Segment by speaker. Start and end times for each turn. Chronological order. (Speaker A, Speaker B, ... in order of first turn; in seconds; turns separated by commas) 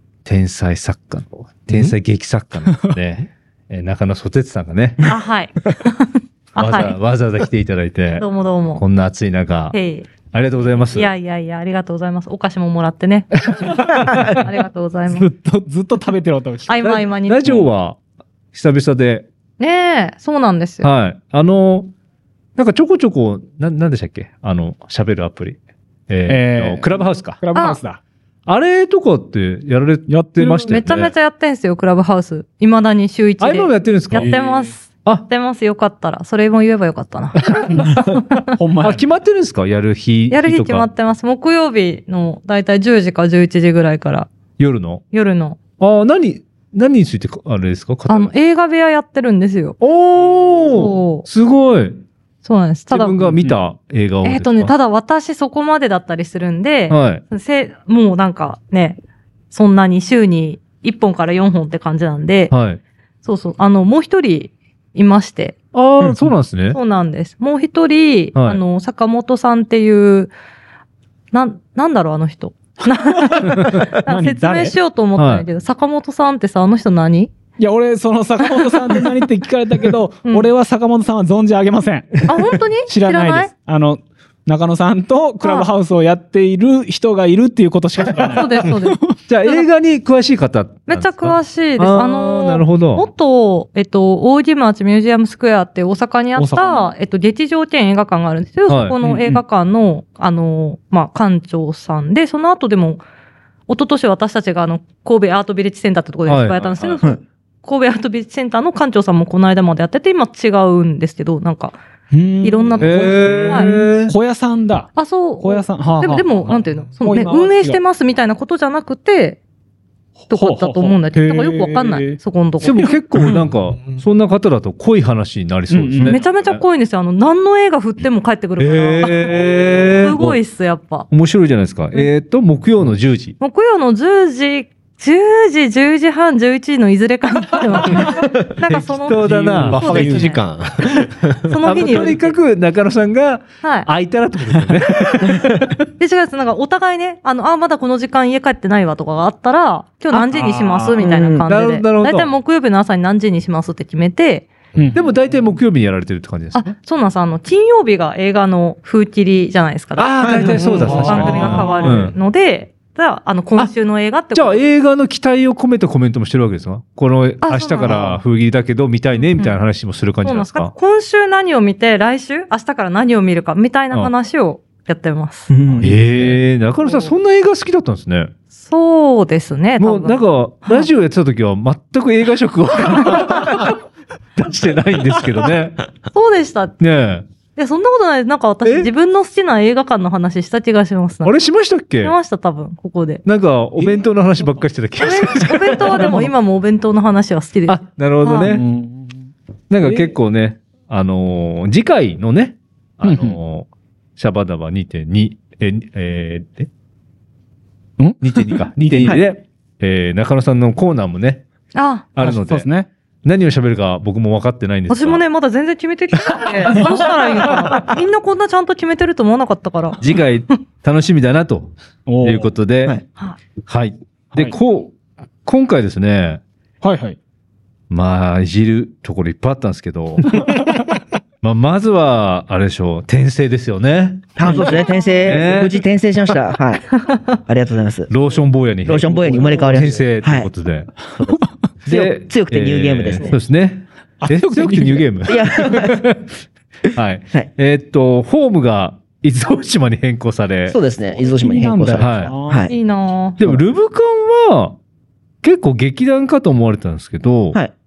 Speaker A: 0.2-5.1, Speaker B: 5.0-7.0, Speaker A: 6.6-8.3, Speaker B: 8.2-8.8, Speaker A: 8.8-11.1, Speaker B: 9.7-10.1, Speaker B: 10.9-13.7, Speaker A: 13.5-14.4, Speaker B: 14.3-15.3, Speaker C: 15.1-17.0, Speaker B: 16.7-17.7, Speaker A: 16.8-18.0, Speaker A: 18.5-19.3, Speaker B: 19.6-20.9, Speaker A: 20.8-21.9, Speaker A: 22.6-27.4, Speaker C: 26.3-28.0, Speaker B: 27.5-27.8, Speaker A: 28.5-31.1, Speaker C: 30.1-30.6, Speaker B: 30.4-37.4, Speaker A: 33.4-34.3, Speaker D: 34.2-34.6, Speaker C: 34.2-34.5, Speaker A: 35.0-35.3, Speaker A: 37.4-40.9, Speaker C: 38.5-39.0, Speaker B: 40.3-44.3, Speaker A: 44.6-45.0, Speaker B: 45.1-45.6, Speaker A: 45.7-48.3, Speaker B: 48.1-49.8, Speaker A: 49.8-52.0, Speaker B: 50.7-51.3, Speaker B: 52.4-53.4, Speaker A: 52.9-54.7, Speaker B: 54.2-59.0, Speaker A: 56.9-57.2, Speaker B: 59.5-62.5, Speaker A: 62.5-62.8, Speaker B: 63.2-65.6, Speaker A: 65.7-66.8, Speaker B: 66.7-70.3, Speaker A: 68.3-68.6, Speaker B: 71.3-77.3, Speaker C: 73.1-74.8, Speaker A: 75.2-75.5, Speaker C: 77.6-82.3, Speaker B: 78.6-79.0, Speaker B: 80.2-80.5, Speaker B: 82.3-83.5, Speaker C: 82.9-89.1, Speaker B: 85.4-85.7, Speaker B: 88.3-89.7, Speaker A: 89.3-93.1, Speaker B: 90.9-103.0, Speaker C: 96.4-96.9, Speaker A: 98.7-99.0, Speaker C: 99.0-99.4, Speaker B: 103.7-111.8, Speaker A: 106.3-107.0, Speaker C: 112.1-117.8, Speaker B: 112.4-113.8, Speaker A: 112.8-114.1, Speaker B: 115.0-119.4, Speaker C: 120.2-122.2, Speaker B: 120.3-122.9, Speaker A: 122.6-126.6, Speaker D: 123.3-124.0, Speaker C: 125.7-126.2, Speaker B: 126.0-131.1, Speaker A: 128.6-130.4, Speaker A: 131.1-133.4, Speaker B: 133.4-140.4, Speaker A: 138.7-140.2, Speaker D: 139.3-141.5, Speaker C: 139.4-140.3, Speaker B: 141.5-142.4, Speaker A: 141.6-145.8, Speaker B: 143.6-143.9, Speaker B: 146.0-154.5, Speaker C: 150.1-151.0, Speaker E: 151.0-151.5, Speaker A: 151.5-152.3, Speaker C: 154.8-155.1, Speaker A: 154.9-156.8, Speaker B: 156.5-164.6, Speaker A: 160.0-162.1, Speaker C: 160.5-162.1, Speaker D: 160.8-161.5, Speaker A: 164.3-170.7, Speaker B: 167.4-168.2, Speaker B: 170.2-175.5, Speaker E: 175.5-176.0, Speaker A: 175.8-178.3, Speaker D: 175.9-176.3, Speaker B: 178.5-180.9, Speaker A: 179.8-183.8, Speaker A: 184.4-185.8, Speaker B: 186.1-186.8, Speaker A: 186.8-187.3, Speaker B: 187.6-191.4, Speaker A: 188.7-188.9, Speaker A: 191.2-192.2, Speaker B: 192.0-193.2, Speaker A: 193.2-196.3, Speaker B: 195.0-198.6, Speaker A: 197.7-198.6, Speaker C: 198.4-199.2, Speaker A: 199.7-206.7, Speaker C: 199.8-200.1, Speaker C: 203.0-203.4, Speaker C: 208.0-209.2, Speaker A: 208.2-211.4, Speaker B: 211.7-212.1, Speaker A: 212.1-212.7, Speaker C: 212.2-212.9, Speaker A: 213.2-215.2, Speaker B: 214.9-220.0, Speaker A: 220.0-223.0, Speaker C: 222.1-222.5, Speaker A: 223.7-224.9, Speaker A: 225.4-226.4, Speaker C: 226.8-227.2, Speaker A: 227.9-230.4, Speaker A: 231.4-234.5, Speaker E: 234.4-238.1, Speaker A: 235.3-235.8, Speaker A: 238.1-240.9, Speaker E: 238.8-240.5, Speaker E: 241.2-243.4, Speaker A: 241.8-246.2, Speaker C: 244.2-245.1, Speaker E: 245.3-246.0, Speaker A: 246.9-250.8, Speaker E: 250.7-252.8, Speaker C: 251.2-252.7, Speaker A: 252.0-252.3, Speaker B: 252.7-253.4, Speaker A: 253.4-254.8, Speaker A: 255.4-257.6